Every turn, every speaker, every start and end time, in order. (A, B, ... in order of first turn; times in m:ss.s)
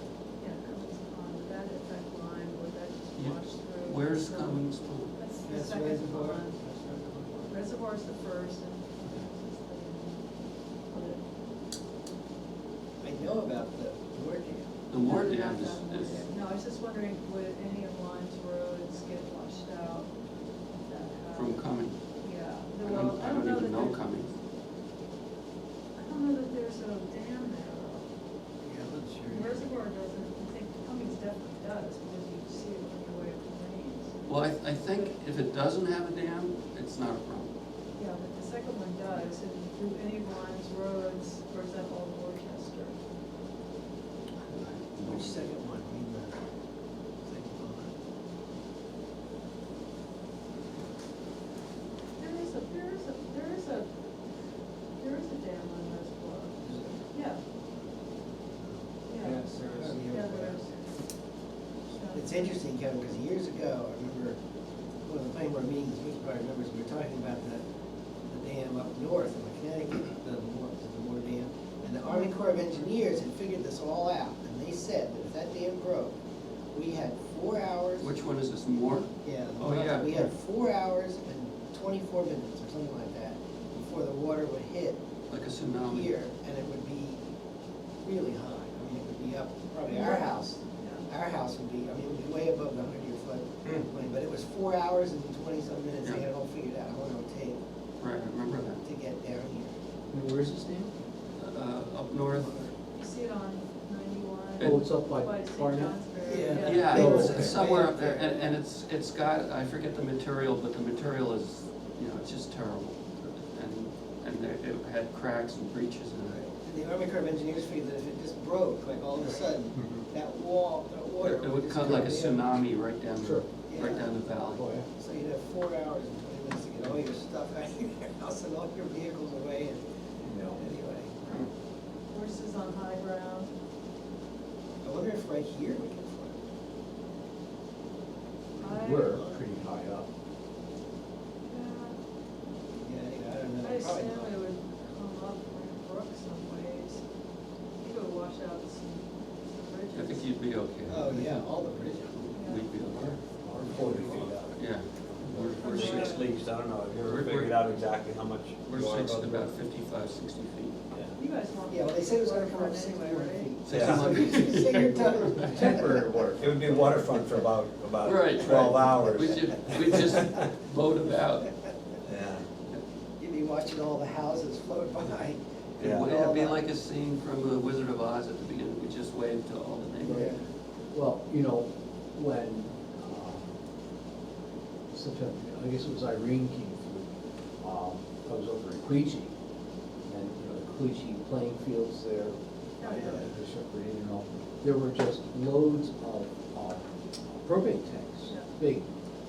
0:00.4-0:06.6 A
0:03.2-0:05.1 B
0:05.4-0:07.5 C
0:07.5-0:10.2 A
0:10.9-0:11.2 A
0:13.0-0:14.7 C
0:14.9-0:16.2 B
0:15.0-0:20.1 A
0:20.8-0:21.7 A
0:21.3-0:22.0 B
0:22.2-0:24.0 A
0:22.8-0:24.3 B
0:26.0-0:28.1 A
0:28.6-0:29.6 C
0:29.2-0:35.2 A
0:34.2-0:37.5 B
0:38.0-0:43.0 A
0:44.5-0:46.4 C
0:44.5-0:45.5 B
0:47.2-0:48.0 C
0:52.2-0:53.9 A
0:55.0-0:56.6 A
0:56.6-0:57.0 C
0:57.1-0:57.4 A
0:58.6-1:00.6 C
0:59.1-1:01.0 A
1:01.9-1:02.6 A
1:02.1-1:04.4 C
1:05.0-1:07.6 C
1:08.2-1:16.1 C
1:12.0-1:12.9 A
1:16.7-1:18.1 C
1:18.0-1:20.3 B
1:19.2-1:25.0 C
1:25.3-1:26.1 B
1:25.8-1:27.3 C
1:28.0-1:37.6 C
1:29.9-1:31.1 A
1:38.0-1:38.8 B
1:38.7-1:39.7 C
1:40.1-1:40.9 D
1:41.4-1:42.6 B
1:42.3-1:42.7 C
1:42.9-1:47.5 A
1:44.6-1:44.8 B
1:44.6-1:47.8 D
1:46.2-1:48.6 C
1:46.5-1:56.4 B
1:56.2-2:02.5 C
2:01.2-2:04.6 B
2:03.2-2:03.4 D
2:03.7-2:04.1 C
2:04.5-2:04.8 D
2:04.9-2:09.8 C
2:10.2-2:10.6 D
2:10.5-2:11.4 C
2:12.1-2:13.5 A
2:14.8-2:16.4 C
2:18.6-2:19.2 A
2:18.6-2:20.1 D
2:18.6-2:19.4 C
2:21.4-2:22.0 A
2:22.8-2:24.4 C
2:23.6-2:27.0 A
2:27.8-2:30.2 A
2:29.9-2:33.2 B
2:30.9-2:32.2 C
2:32.3-2:32.7 A
2:33.1-2:34.7 E
2:33.8-2:34.1 C
2:33.8-2:36.2 B
2:35.2-2:39.6 E
2:35.6-2:36.3 A
2:37.0-2:37.9 B
2:38.6-2:40.8 B
2:41.2-2:43.6 A
2:41.7-2:46.1 C
2:43.6-2:45.8 B
2:43.7-2:44.5 E
2:44.3-2:46.4 D
2:46.3-2:50.5 E
2:48.0-2:51.5 B
2:52.0-2:52.4 E
2:53.2-2:55.4 C
2:55.8-2:56.2 E
2:55.8-3:00.4 B
2:56.0-2:56.6 C
3:00.0-3:00.4 C
3:00.9-3:03.5 D
3:04.9-3:09.3 D
3:10.0-3:18.9 D
3:12.8-3:13.3 A